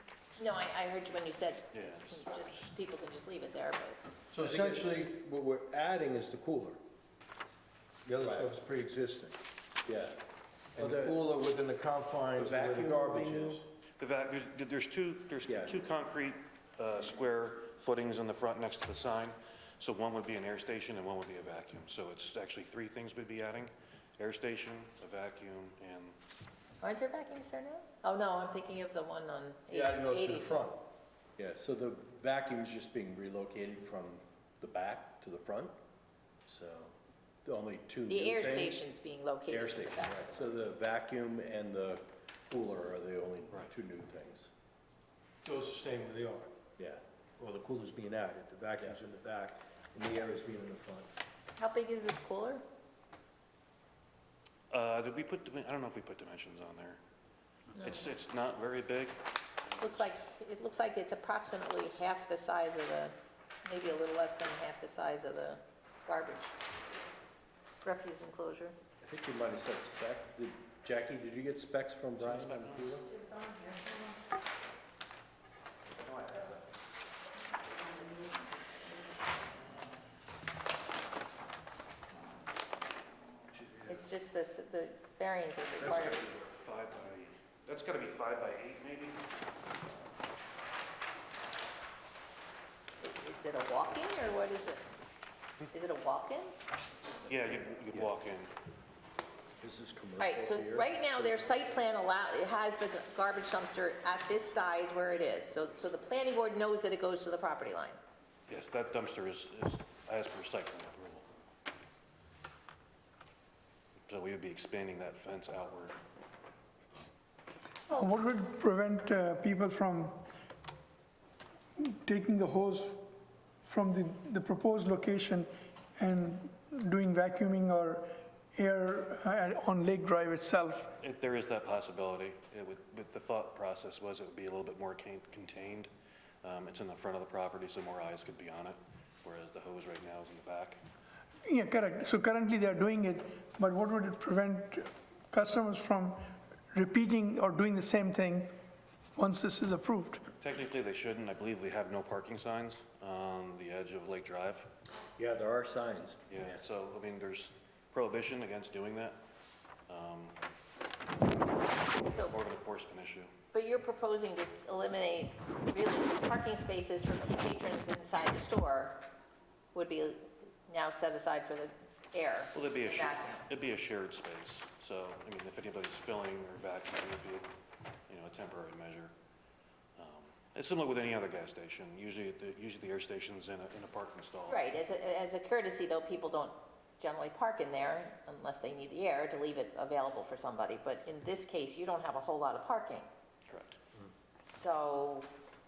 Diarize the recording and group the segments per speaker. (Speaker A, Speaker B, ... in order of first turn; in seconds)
Speaker A: 0.4-4.0, 26.8-30.6, 38.1-40.5, 51.6-52.6, 57.8-58.0, 59.8-63.1, 63.6-66.5, 67.8-68.8, 73.2-74.0, 77.8-79.3, 83.9-86.2, 93.0-94.8, 95.7-96.5, 100.2-108.0, 163.5-169.0, 169.7-173.5, 184.5-193.1, 194.4-195.3
Speaker B: 1.7-2.7, 14.0-26.2, 54.7-57.0, 57.8-60.1, 72.2-73.1, 83.5-84.0, 85.8-89.2, 97.2-98.5, 108.5-111.3, 114.1-116.0, 131.0-135.9, 136.4-140.8, 150.4-154.7, 156.3-159.2, 159.9-160.4, 162.2-163.4, 172.5-177.5, 178.1-179.1, 180.0-184.6, 193.5-193.8
Speaker C: 4.3-6.8, 8.1-9.4, 10.8-13.6, 29.7-30.8, 45.4-46.5, 47.4-51.1
Speaker D: 4.4-4.9, 8.2-8.5, 9.8-10.2, 10.8-11.2, 12.3-13.6, 15.5-15.8, 31.4-35.7, 36.4-36.9, 37.4-38.9, 39.5-44.5, 69.0-73.1, 99.6-101.6, 155.2-156.3
Speaker E: 117.9-120.2, 121.8-123.0, 123.7-130.9, 141.4-146.2, 146.7-148.5, 149.2-150.2